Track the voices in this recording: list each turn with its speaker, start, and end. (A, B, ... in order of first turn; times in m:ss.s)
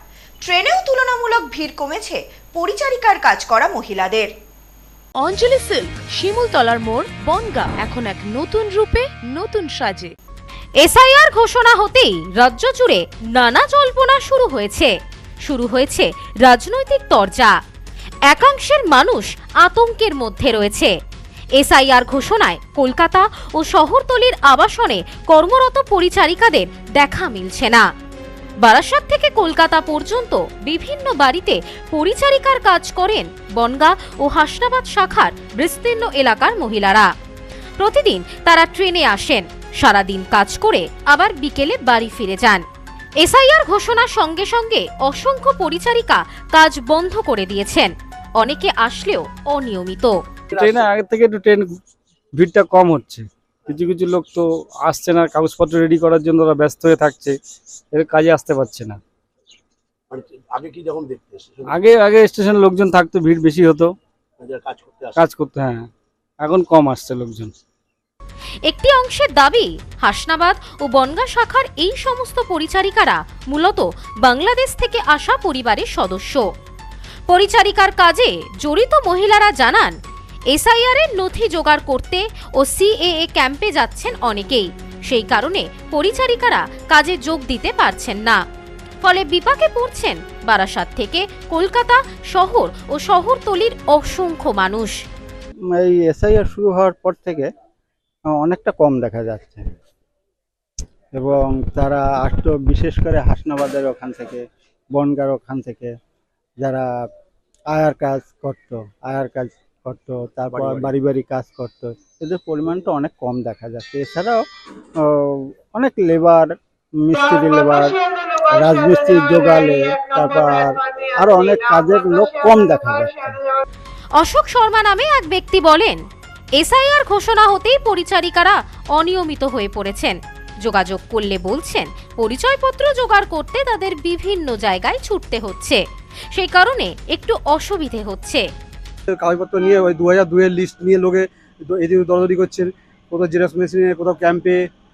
0:00.4-0:04.3 A
0:05.2-0:10.1 B
0:10.8-0:14.9 C
0:15.4-0:17.5 C
0:18.3-0:20.9 C
0:21.6-0:27.9 C
0:28.6-0:37.1 C
0:37.8-0:42.6 C
0:43.2-0:50.2 C
0:50.5-0:51.7 D
0:50.6-0:50.9 E
0:52.4-0:57.4 D
0:57.9-0:59.0 D
1:00.1-1:01.7 E
1:01.7-1:03.9 D
1:04.4-1:05.2 E
1:05.2-1:05.9 D
1:06.4-1:07.5 D
1:08.7-1:16.5 C
1:17.3-1:20.0 C
1:20.5-1:28.4 C
1:29.0-1:34.9 C
1:35.7-1:37.5 F
1:38.4-1:39.7 F
1:41.1-1:46.0 F
1:46.6-1:46.9 F
1:47.7-1:54.4 F
1:50.5-1:50.9 E
1:55.0-2:03.4 F
2:04.2-2:06.0 C
2:06.6-2:15.8 C
2:16.3-2:18.5 C
2:19.1-2:24.6 G